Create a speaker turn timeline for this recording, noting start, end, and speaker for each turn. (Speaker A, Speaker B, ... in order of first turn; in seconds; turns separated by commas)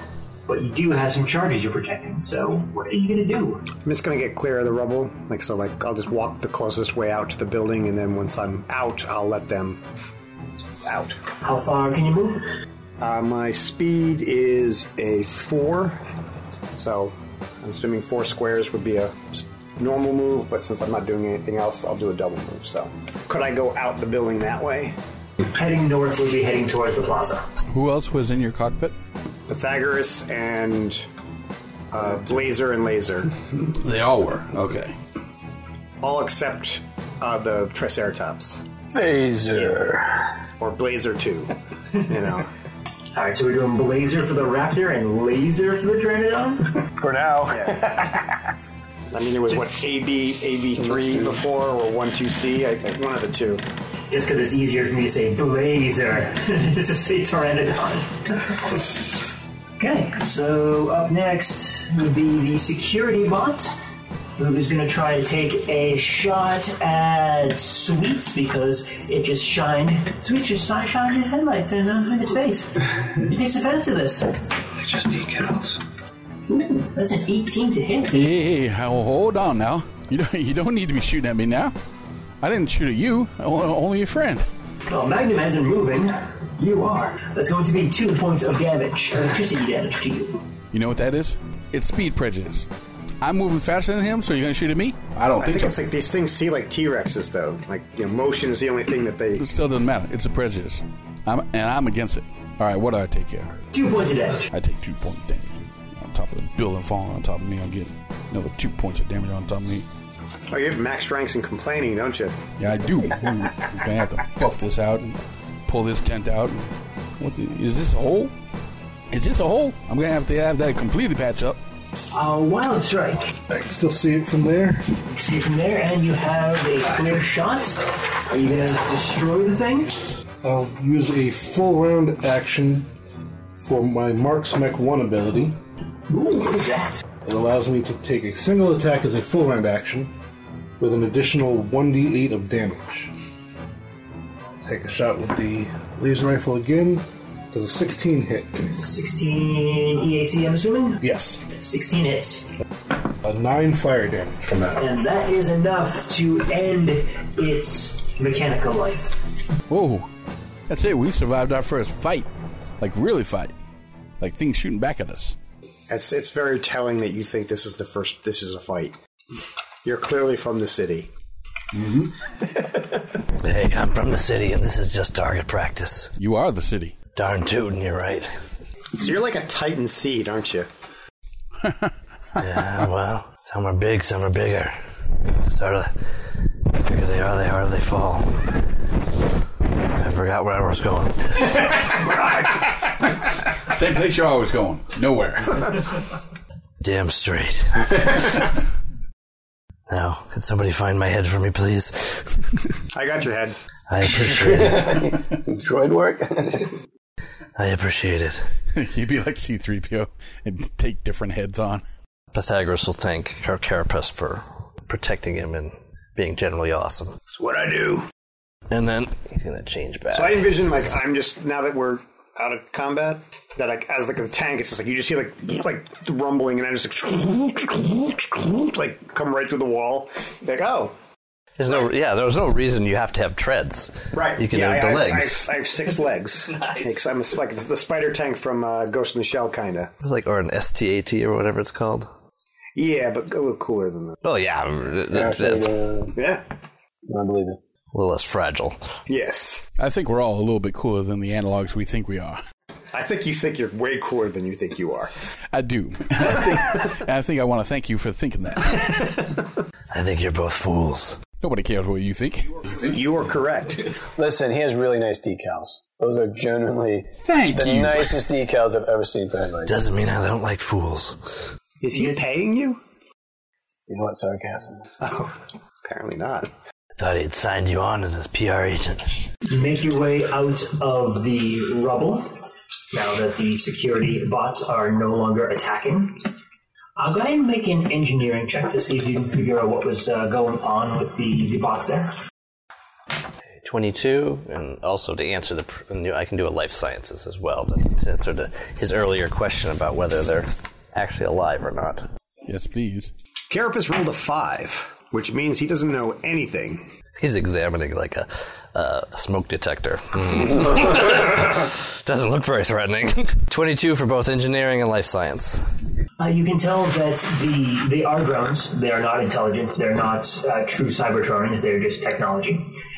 Speaker A: 0.5-3.6, Speaker B: 3.8-9.8, Speaker B: 10.8-11.2, Speaker A: 11.4-12.4, Speaker B: 13.0-16.0, Speaker B: 16.7-24.9, Speaker A: 25.5-27.4, Speaker C: 27.7-28.9, Speaker B: 29.5-31.1, Speaker B: 31.9-33.3, Speaker C: 33.7-34.9, Speaker B: 36.0-38.6, Speaker D: 38.9-40.3, Speaker B: 40.6-42.5, Speaker A: 43.1-46.7, Speaker D: 47.0-48.4, Speaker B: 49.1-53.6, Speaker D: 50.8-51.4, Speaker A: 54.1-59.2, Speaker A: 59.8-63.8, Speaker A: 64.4-74.4, Speaker A: 76.7-78.3, Speaker C: 78.1-81.7, Speaker C: 82.4-84.5, Speaker A: 84.9-90.4, Speaker C: 90.7-92.7, Speaker C: 93.2-95.7, Speaker B: 95.4-99.5, Speaker C: 99.3-103.5, Speaker A: 103.7-104.5, Speaker C: 104.5-109.8, Speaker B: 110.5-112.4, Speaker C: 112.6-118.3, Speaker C: 119.1-121.6, Speaker A: 122.1-123.3, Speaker E: 123.5-124.8, Speaker A: 125.1-129.9, Speaker E: 130.4-132.9, Speaker E: 133.6-135.6, Speaker A: 136.1-137.0, Speaker E: 137.2-140.1, Speaker E: 140.8-143.1, Speaker E: 144.6-148.7, Speaker A: 148.7-152.5, Speaker E: 151.0-151.4, Speaker E: 153.2-154.8, Speaker A: 154.8-159.2, Speaker C: 159.7-160.1, Speaker C: 160.7-162.3, Speaker C: 162.8-163.5, Speaker C: 164.2-165.3, Speaker B: 165.9-168.9, Speaker B: 169.8-171.1, Speaker C: 171.7-172.1, Speaker F: 173.4-176.1, Speaker C: 176.2-176.9, Speaker F: 177.1-178.4, Speaker B: 178.9-180.7, Speaker C: 181.6-181.9, Speaker F: 182.4-184.8, Speaker F: 185.4-188.6, Speaker F: 190.0-191.7, Speaker C: 192.3-196.0, Speaker F: 196.8-198.5, Speaker F: 199.9-202.6, Speaker B: 202.9-203.6, Speaker F: 203.9-205.1, Speaker D: 204.4-206.7, Speaker F: 207.6-208.4, Speaker C: 208.7-211.8, Speaker F: 212.3-217.2, Speaker B: 217.3-218.1, Speaker F: 218.7-220.6, Speaker B: 220.1-230.9, Speaker F: 231.6-235.5, Speaker B: 234.1-239.9, Speaker F: 240.0-242.1, Speaker B: 242.7-244.2, Speaker F: 244.2-245.7, Speaker D: 245.1-246.2, Speaker B: 246.2-246.4, Speaker D: 247.1-247.6, Speaker F: 247.9-248.8, Speaker B: 249.1-249.6, Speaker C: 249.8-252.4, Speaker B: 252.9-255.1, Speaker C: 255.5-259.2, Speaker F: 259.9-261.2, Speaker C: 261.4-263.0, Speaker B: 262.8-263.9, Speaker D: 264.1-269.8, Speaker C: 267.2-268.1, Speaker F: 269.7-271.5, Speaker B: 271.8-272.8, Speaker A: 271.9-272.2, Speaker D: 273.9-274.9, Speaker B: 275.0-276.5, Speaker F: 277.0-279.3, Speaker A: 279.5-282.4, Speaker A: 282.9-286.2, Speaker A: 287.0-292.1, Speaker F: 293.6-302.1, Speaker C: 302.4-303.1, Speaker B: 303.5-306.9, Speaker F: 307.2-315.7, Speaker A: 316.2-322.7